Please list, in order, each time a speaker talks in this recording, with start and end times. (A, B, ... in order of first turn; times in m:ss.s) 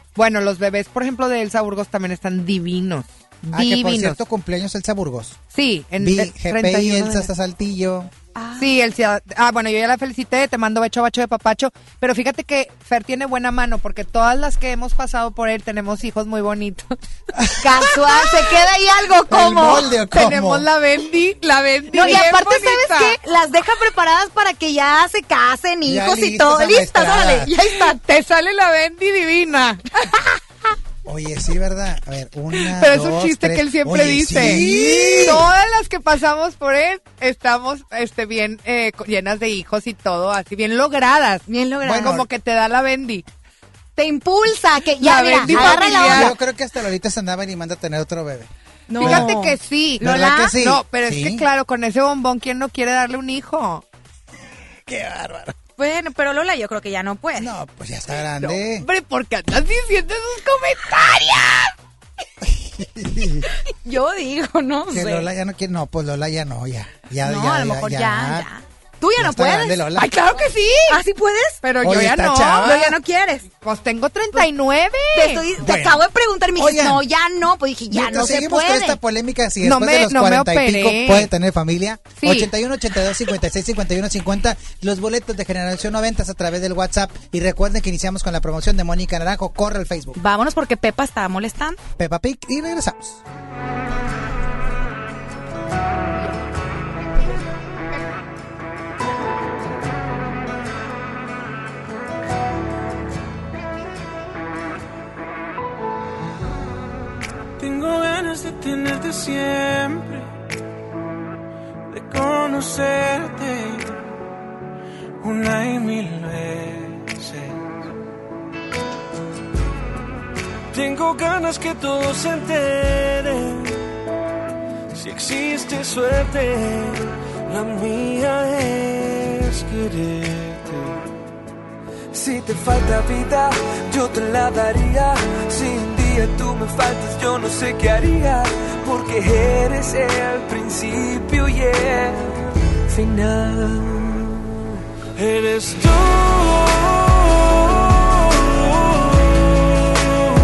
0:00.2-0:04.2 A
0:03.5-0:05.4 B
0:05.5-0:07.3 A
0:06.0-0:08.1 B
0:08.4-0:08.7 C
0:08.6-0:16.9 A
0:17.3-0:18.4 B
0:17.6-0:19.8 C
0:19.3-0:20.6 B
0:19.9-0:23.2 A
0:21.9-0:28.0 C
0:25.9-0:27.5 B
0:27.6-0:30.0 A
0:31.0-0:35.5 B
0:32.6-0:43.2 A
0:34.5-0:34.9 C
0:41.5-0:42.1 C
0:41.8-0:42.2 B
0:44.0-0:46.3 C
0:45.0-0:46.3 A
0:45.4-0:48.5 B
0:48.9-0:50.5 C
0:49.0-0:53.8 A
0:49.0-0:49.3 B
0:50.0-0:51.4 B
0:54.9-0:55.6 B
0:55.8-0:57.5 C
0:57.4-0:58.9 B
0:58.4-1:01.7 A
1:02.4-1:03.4 B
1:03.8-1:05.3 C
1:04.9-1:08.5 B
1:07.2-1:09.9 C
1:09.2-1:10.1 B
1:10.0-1:11.0 A
1:10.9-1:11.6 C
1:11.6-1:13.0 A
1:11.8-1:12.8 B
1:12.6-1:13.4 C
1:13.5-1:15.4 A
1:15.1-1:19.0 C
1:15.6-1:16.0 B
1:16.6-1:17.0 B
1:17.9-1:30.2 B
1:19.6-1:21.3 A
1:22.2-1:22.5 A
1:30.2-1:31.8 C
1:32.0-1:33.2 B
1:47.6-1:50.3 D
1:51.9-1:54.0 D
1:55.2-1:57.6 D
2:00.7-2:03.8 D
2:04.9-2:11.0 D
2:12.1-2:24.5 D
2:25.2-2:29.2 D